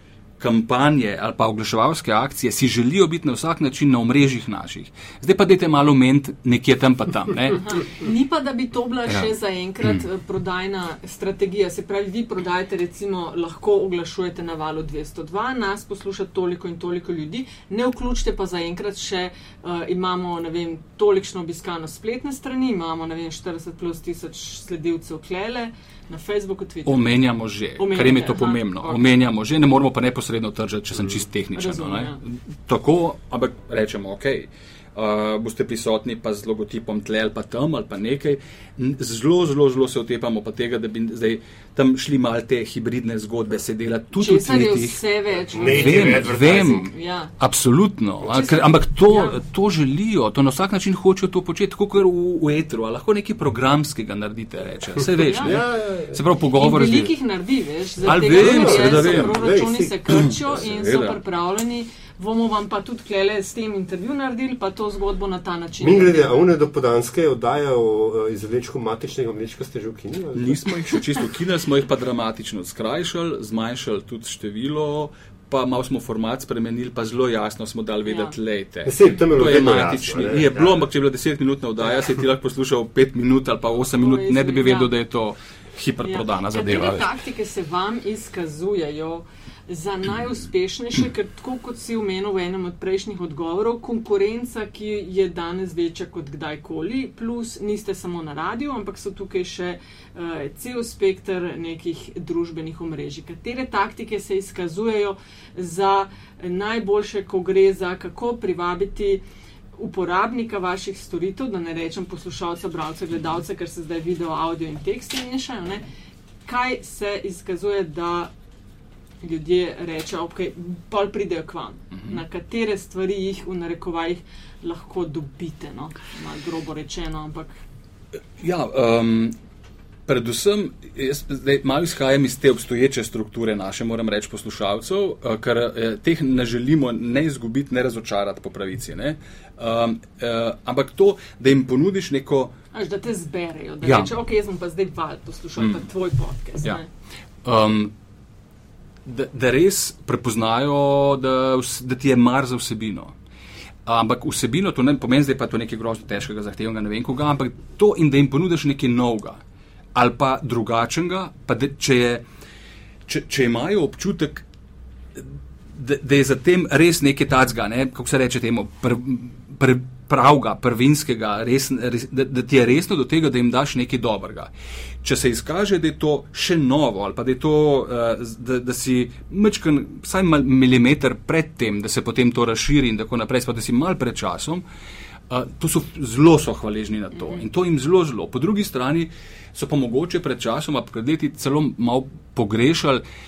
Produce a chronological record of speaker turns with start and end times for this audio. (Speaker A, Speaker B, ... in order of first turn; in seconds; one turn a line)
Speaker A: 0.4-7.6
Speaker B: 7.5-27.0
Speaker A: 26.9-45.0
Speaker B: 27.8-29.1
Speaker B: 31.5-32.2
Speaker B: 44.1-47.3
Speaker C: 45.5-46.8
Speaker A: 45.6-57.1
Speaker B: 48.2-49.4
Speaker B: 55.2-55.5
Speaker C: 55.4-56.2
Speaker B: 56.6-66.3
Speaker A: 58.0-59.5
Speaker C: 58.2-60.0
Speaker A: 60.1-61.1
Speaker C: 65.8-70.6
Speaker A: 70.3-87.1
Speaker B: 78.0-78.3
Speaker C: 78.8-80.9
Speaker B: 83.8-84.9
Speaker B: 86.0-109.2
Speaker B: 109.8-115.8
Speaker B: 116.5-118.3
Speaker B: 119.2-127.5
Speaker A: 121.9-122.2
Speaker A: 128.4-129.3
Speaker A: 130.1-142.5
Speaker B: 142.7-146.8
Speaker A: 143.8-144.1
Speaker A: 145.6-145.8
Speaker A: 147.4-147.9
Speaker A: 149.1-153.1
Speaker A: 153.8-159.4
Speaker A: 159.9-162.2
Speaker A: 163.1-164.4
Speaker A: 165.1-174.5
Speaker A: 175.0-184.6
Speaker A: 185.3-193.0